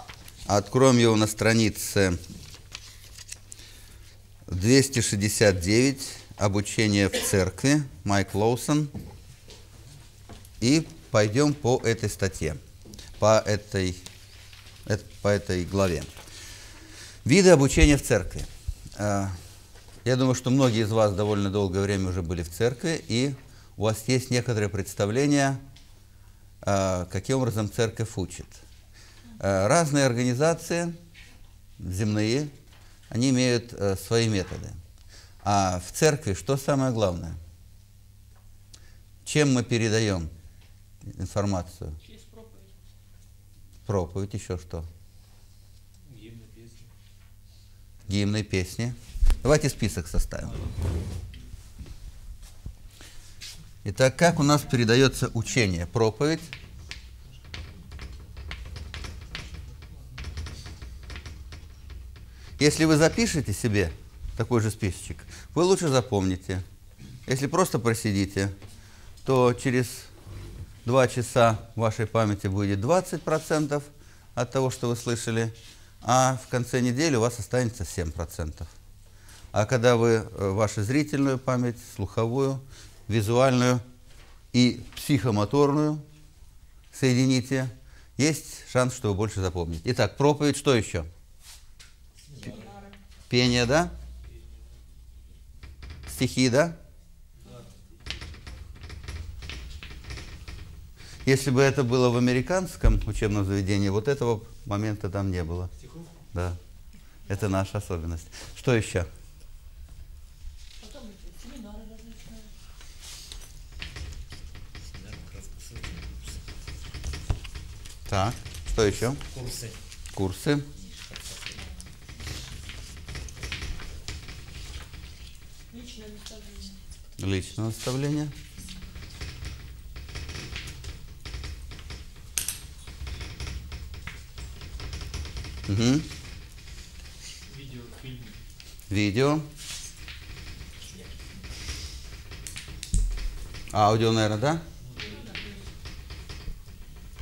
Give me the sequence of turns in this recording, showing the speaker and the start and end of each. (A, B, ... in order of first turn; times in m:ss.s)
0:00.4-0:02.2 A
0:04.5-0:08.9 A
0:10.6-0:12.6 A
0:13.2-0:14.0 A
0:14.8-0:16.1 A
0:17.2-0:19.4 A
0:20.0-0:25.6 A
0:26.6-0:28.6 A
0:29.4-0:31.0 A
0:31.8-0:32.5 A
0:33.1-0:34.8 A
0:35.4-0:37.4 A
0:39.2-0:40.3 A
0:41.1-0:42.0 A
0:43.8-0:44.9 A
0:46.1-0:46.9 B
0:48.1-0:50.6 A
0:53.8-0:56.5 A
1:02.6-1:06.6 A
1:07.3-1:08.5 A
1:09.2-1:10.1 A
1:10.8-1:18.7 A
1:19.5-1:23.8 A
1:24.5-1:26.0 A
1:26.9-1:31.1 A
1:32.3-1:32.7 C
1:32.5-1:32.7 B
1:33.3-1:33.9 A
1:36.1-1:36.8 A
1:41.2-1:45.7 A
1:46.3-1:46.6 A
1:47.2-1:49.1 A
1:54.9-1:56.4 C
1:58.1-1:59.2 A
1:58.8-1:59.8 C
2:00.1-2:00.7 A
2:00.8-2:01.7 C
2:07.2-2:08.3 A
2:15.7-2:16.1 A
2:17.5-2:18.4 B
2:18.9-2:19.5 A
2:23.7-2:24.6 A
2:24.8-2:25.4 B